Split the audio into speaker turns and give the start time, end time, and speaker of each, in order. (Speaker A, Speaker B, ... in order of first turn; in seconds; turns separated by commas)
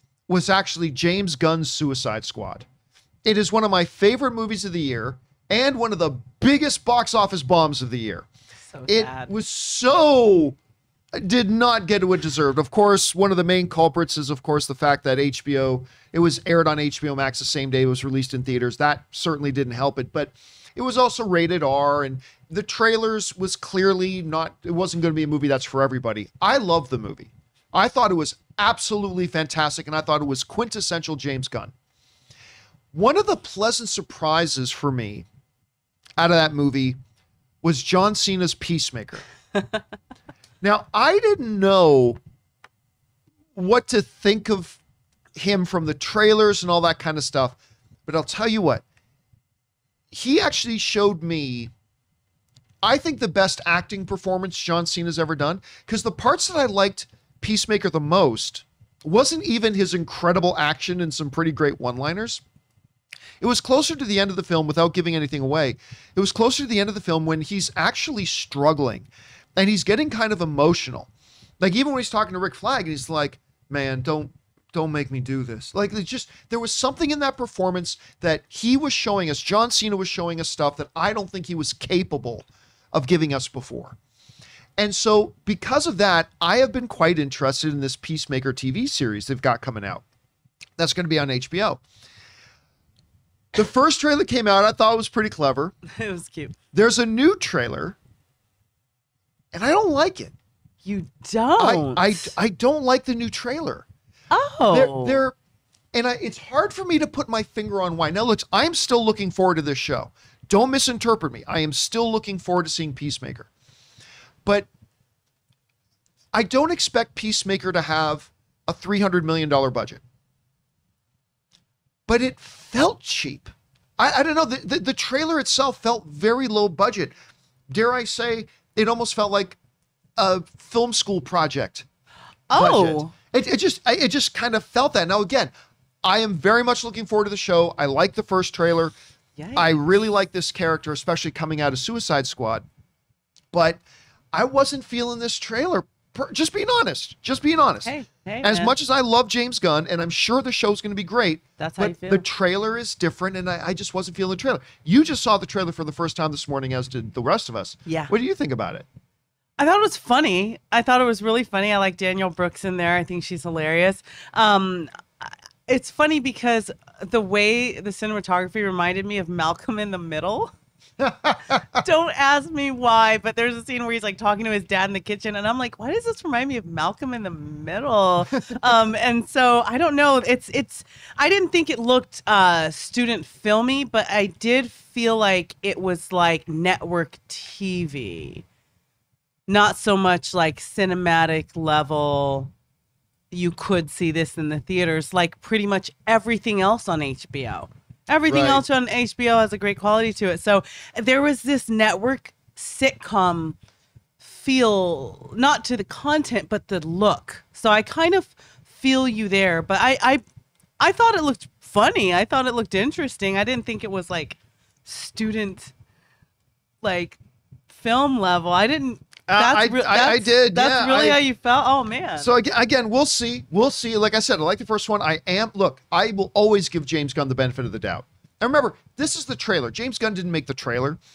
Speaker A: 0.3-2.7, Speaker A: 3.2-8.3, Speaker B: 8.7-9.3, Speaker A: 8.9-10.6, Speaker A: 11.1-31.7, Speaker A: 32.9-35.3, Speaker A: 36.2-37.0, Speaker A: 37.6-39.2, Speaker A: 40.6-42.2, Speaker A: 43.6-44.8, Speaker A: 45.4-48.8, Speaker A: 50.1-51.7, Speaker A: 52.8-62.4, Speaker A: 63.4-71.1, Speaker A: 71.6-84.0, Speaker A: 84.8-90.0, Speaker A: 90.8-91.8, Speaker A: 93.5-95.8, Speaker B: 96.0-96.5, Speaker A: 96.7-98.0, Speaker A: 99.5-100.3, Speaker B: 100.8-102.3, Speaker A: 101.6-103.9, Speaker B: 104.3-105.2, Speaker A: 104.7-105.4, Speaker A: 105.9-113.5, Speaker A: 116.3-120.0, Speaker A: 122.1-127.1, Speaker A: 127.7-129.6, Speaker A: 130.2-131.9, Speaker B: 132.5-133.1, Speaker A: 132.5-135.5, Speaker A: 136.0-138.9, Speaker B: 139.4-139.8, Speaker A: 139.6-142.7, Speaker A: 143.5-143.8, Speaker A: 144.3-158.9, Speaker B: 147.8-148.7, Speaker B: 151.6-152.2, Speaker B: 157.9-158.1, Speaker B: 159.6-170.5, Speaker A: 171.0-171.7, Speaker B: 171.7-188.4, Speaker B: 189.5-192.5, Speaker B: 193.3-203.6, Speaker A: 198.3-198.6, Speaker B: 204.2-210.2, Speaker B: 210.8-215.7, Speaker B: 216.8-217.2, Speaker B: 217.7-222.3, Speaker A: 219.3-221.2, Speaker A: 222.2-231.0